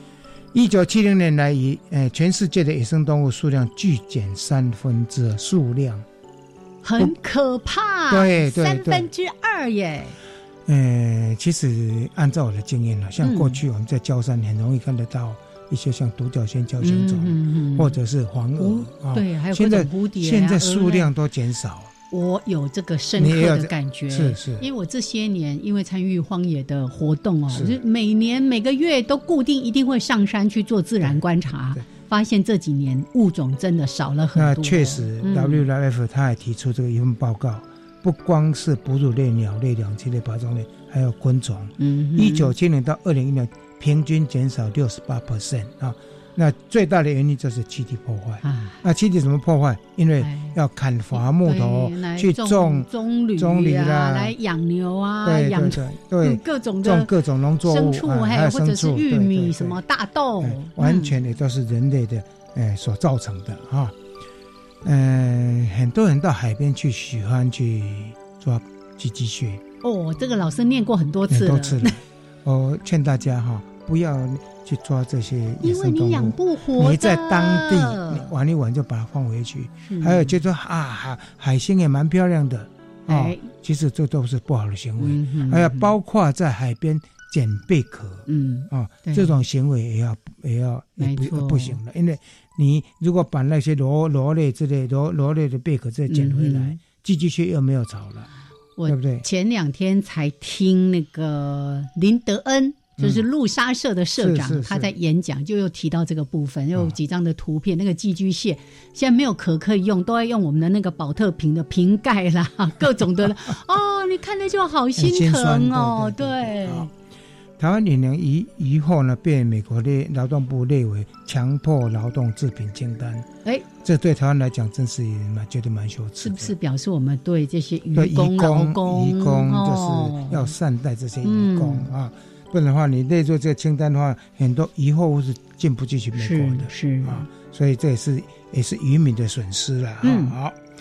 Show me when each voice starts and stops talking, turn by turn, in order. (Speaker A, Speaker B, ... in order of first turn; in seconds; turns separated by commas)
Speaker A: 0.5-6.0, Speaker B: 6.8-10.2, Speaker A: 8.1-9.1, Speaker A: 10.7-21.9, Speaker B: 13.2-13.6, Speaker B: 16.8-17.9, Speaker B: 18.6-21.1, Speaker B: 22.1-35.6, Speaker A: 23.2-24.6, Speaker A: 27.5-27.8, Speaker A: 34.4-54.3, Speaker B: 41.8-42.5, Speaker B: 48.4-48.8, Speaker B: 50.2-50.5, Speaker B: 51.1-57.1, Speaker A: 55.2-59.8, Speaker B: 57.6-61.1, Speaker A: 60.4-63.9, Speaker A: 64.8-69.6, Speaker B: 69.8-72.0, Speaker A: 71.3-98.3, Speaker B: 75.6-78.3, Speaker B: 79.8-80.3, Speaker B: 83.1-83.5, Speaker B: 85.0-85.9, Speaker B: 88.3-89.4, Speaker B: 91.0-91.8, Speaker B: 96.1-96.8, Speaker B: 98.8-116.9, Speaker A: 98.9-99.2, Speaker A: 103.0-103.3, Speaker A: 104.2-104.9, Speaker A: 115.0-116.9, Speaker A: 117.6-123.2, Speaker A: 123.8-126.5, Speaker B: 126.2-130.5, Speaker A: 127.9-140.6, Speaker B: 131.2-131.9, Speaker B: 136.2-137.3, Speaker B: 140.0-140.3